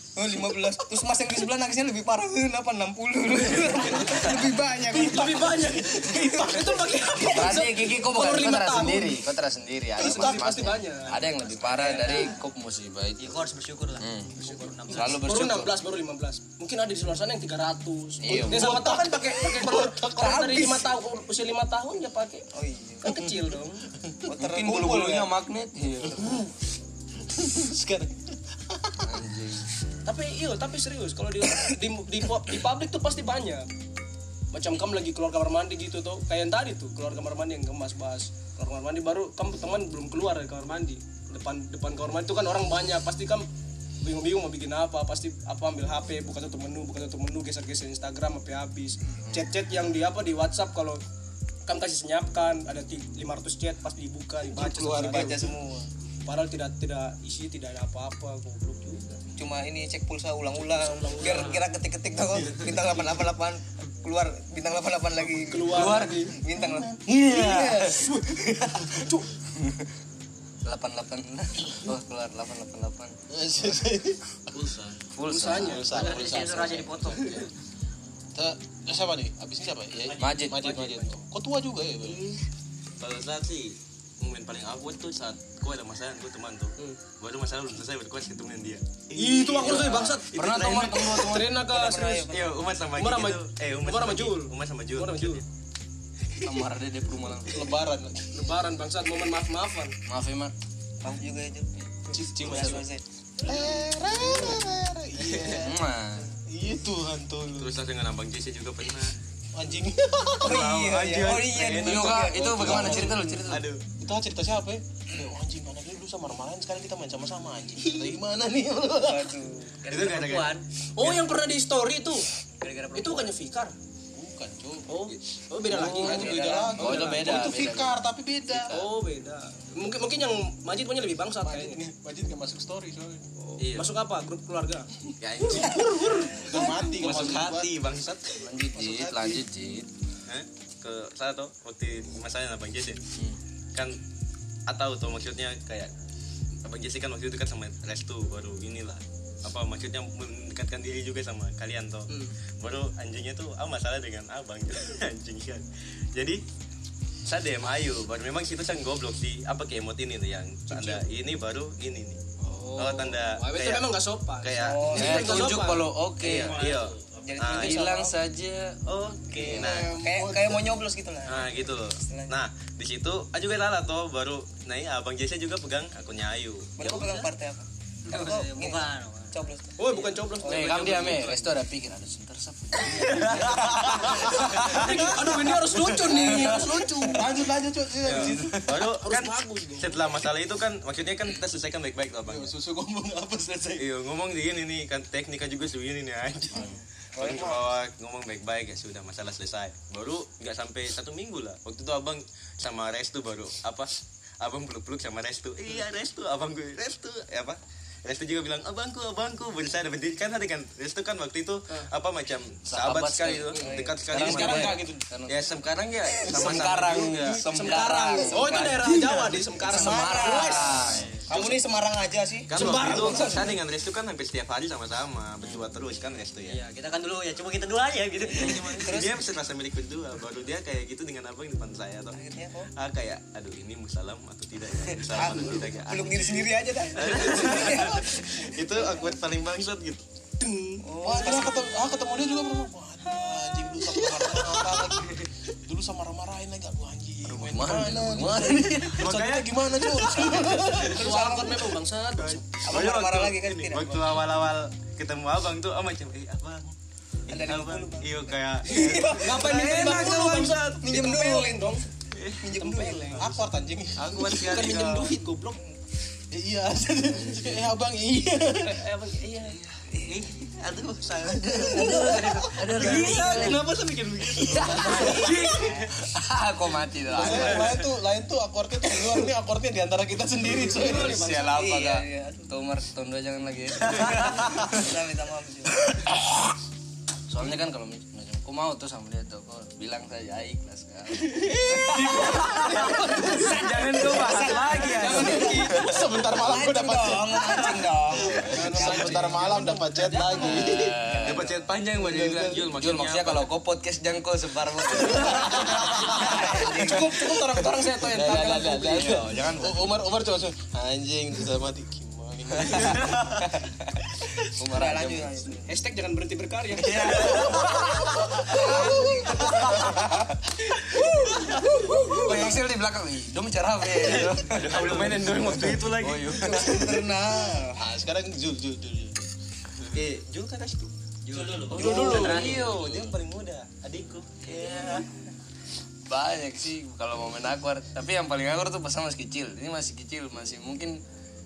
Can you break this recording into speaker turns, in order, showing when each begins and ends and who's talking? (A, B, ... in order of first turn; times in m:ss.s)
0:00.2-0:06.8 A
0:04.9-0:07.3 B
0:05.0-0:09.2 C
0:07.3-0:13.5 D
0:10.0-0:12.3 C
0:10.0-0:10.7 B
0:11.7-0:12.1 E
0:13.2-0:15.3 E
0:14.0-0:14.4 D
0:14.4-0:22.5 C
0:14.9-0:15.7 D
0:18.2-0:18.8 D
0:18.2-0:20.9 B
0:22.5-0:23.2 A
0:23.0-0:23.9 C
0:24.3-0:25.3 A
0:24.3-0:26.4 D
0:26.1-0:26.5 B
0:27.3-0:29.1 B
0:29.0-0:29.7 D
0:30.1-0:33.7 C
0:34.5-0:43.5 C
0:44.0-0:51.0 C
0:51.7-0:55.5 C
0:54.5-0:55.5 B
0:54.9-0:55.9 A
0:56.2-0:59.2 C
0:59.4-1:07.0 A
1:00.6-1:01.6 C
1:05.2-1:06.4 C
1:05.7-1:06.3 D
1:07.0-1:08.1 D
1:07.3-1:09.2 C
1:07.3-1:07.9 B
1:09.5-1:09.9 D
1:10.6-1:13.2 D
1:13.3-1:14.2 B
1:14.5-1:15.0 F
1:15.2-1:16.1 D
1:15.3-1:16.1 C
1:15.5-1:17.5 B
1:15.8-1:17.5 E
1:18.4-1:22.3 B
1:20.2-1:20.9 D
1:22.0-1:22.4 C
1:23.0-1:31.1 F
1:29.1-1:32.3 C
1:29.6-1:30.1 B
1:29.6-1:31.5 D
1:31.5-1:32.6 A
1:32.3-1:35.4 F
1:33.0-1:35.4 C
1:36.4-1:37.7 D
1:37.5-1:38.5 B
1:38.3-1:40.0 C
1:40.1-1:40.5 D
1:41.0-1:43.0 A
1:42.1-1:42.8 B
1:42.4-1:42.8 F
1:43.4-1:45.8 B
1:45.5-1:46.3 D
1:46.4-1:47.8 B
1:47.5-1:49.2 F
1:49.5-1:50.7 B
1:50.4-1:53.1 A
1:50.4-1:53.8 F
1:51.7-1:53.7 D
1:51.8-1:59.3 B
1:59.0-1:59.8 A
1:59.8-2:00.6 E
1:59.9-2:01.2 F
2:01.0-2:02.3 C
2:02.6-2:03.4 E
2:02.9-2:03.8 C
2:04.1-2:05.0 B
2:04.9-2:07.5 C
2:05.6-2:08.8 B
2:05.8-2:08.0 D
2:08.6-2:11.8 C
2:11.4-2:13.3 B
2:13.4-2:14.9 C
2:13.6-2:14.0 F
2:15.2-2:18.4 F
2:15.4-2:16.7 C
2:15.4-2:17.8 B
2:18.4-2:19.9 D
2:18.7-2:19.4 B
2:20.3-2:23.0 F
2:23.7-2:24.0 F
2:24.7-2:25.9 F
2:26.6-2:36.4 F
2:32.1-2:32.3 C
2:37.3-2:42.2 F
2:40.7-2:41.1 C
2:42.5-2:42.9 D
2:42.7-2:43.8 F
2:43.2-2:45.9 C
2:44.4-2:45.6 F
2:44.6-2:45.4 A
2:45.0-2:46.7 D
2:46.2-2:47.9 F
2:47.2-2:48.2 A
2:47.4-2:48.8 D
2:48.9-2:50.0 F
2:49.4-2:50.8 B
2:49.4-2:49.9 D
2:49.4-2:52.4 A
2:51.3-2:57.0 F
2:56.8-3:01.2 A
2:56.9-2:57.3 E
2:58.1-2:59.4 E
2:59.8-3:01.3 C
3:00.4-3:05.0 D
3:00.7-3:01.4 F
3:03.2-3:03.4 C
3:03.2-3:04.9 F
3:03.5-3:09.1 B
3:04.5-3:07.2 C
3:05.9-3:07.1 D
3:08.0-3:12.6 F
3:08.1-3:08.8 D
3:09.0-3:10.0 C
3:12.3-3:13.9 B
3:13.8-3:23.9 F
3:16.6-3:17.7 A
3:24.4-3:37.6 F
3:32.7-3:35.4 D
3:34.1-3:35.0 B
3:36.3-3:41.1 D
3:36.4-3:36.7 B
3:37.5-3:40.6 C
3:39.7-3:43.5 A
3:40.8-3:41.0 F
3:42.5-3:46.6 F
3:42.6-3:43.5 C
3:46.5-3:48.8 E
3:48.3-3:49.2 A
3:48.7-3:52.2 F
3:52.1-3:52.7 A
3:52.8-4:00.0 F
3:55.1-3:59.1 A
3:57.7-3:58.2 B
4:00.4-4:00.9 C
4:00.8-4:01.8 A
4:01.0-4:11.8 B
4:07.3-4:09.1 D
4:08.9-4:10.9 F
4:10.8-4:12.5 C
4:12.2-4:16.8 F
4:12.6-4:14.2 A
4:12.7-4:13.0 B
4:17.3-4:19.8 F
4:17.3-4:21.8 A
4:19.0-4:21.9 C
4:22.1-4:22.4 F
4:22.4-4:23.3 A
4:22.4-4:23.3 C
4:23.2-4:24.3 B
4:24.0-4:25.1 F
4:24.1-4:25.6 C
4:26.3-4:28.8 B
4:27.1-4:27.6 D
4:28.6-4:29.6 C
4:29.9-4:33.8 A
4:31.2-4:32.7 B
4:31.6-4:33.6 E
4:32.6-4:33.7 D
4:32.8-4:35.4 F
4:34.4-4:35.9 A
4:34.4-4:37.8 D
4:34.7-4:35.5 B
4:37.1-4:41.3 B
4:37.3-4:37.7 F
4:40.4-4:41.7 C
4:41.0-4:44.9 D
4:41.5-4:42.5 A
4:44.1-4:46.0 A
4:45.9-4:46.4 D
4:47.3-4:53.5 D
4:51.4-4:59.2 A
4:51.9-4:54.9 F
4:52.0-5:01.0 B
4:52.9-4:53.5 C
4:54.6-4:55.8 C
4:55.0-4:55.4 D
4:58.4-5:01.0 C
5:00.4-5:01.5 D
5:01.2-5:03.5 F
5:01.9-5:02.6 B
5:02.7-5:07.0 D
5:05.3-5:09.3 C
5:05.5-5:06.2 B
5:05.9-5:07.4 A
5:06.8-5:13.4 B
5:08.1-5:09.9 D
5:12.6-5:13.0 D
5:14.6-5:15.4 D
5:14.7-5:15.7 A
5:15.6-5:17.8 C
5:16.8-5:20.2 D
5:16.9-5:20.3 B
5:18.4-5:19.8 C
5:18.7-5:19.1 A
5:20.8-5:22.4 B
5:20.9-5:22.2 C
5:21.7-5:26.9 D
5:24.0-5:26.7 F
5:24.8-5:25.2 B
5:26.4-5:27.1 B
5:26.5-5:27.8 A
5:27.7-5:29.3 B
5:29.8-5:35.1 F
5:31.6-5:33.2 B
5:31.7-5:32.5 C
5:34.7-5:35.0 A
5:36.1-5:41.0 D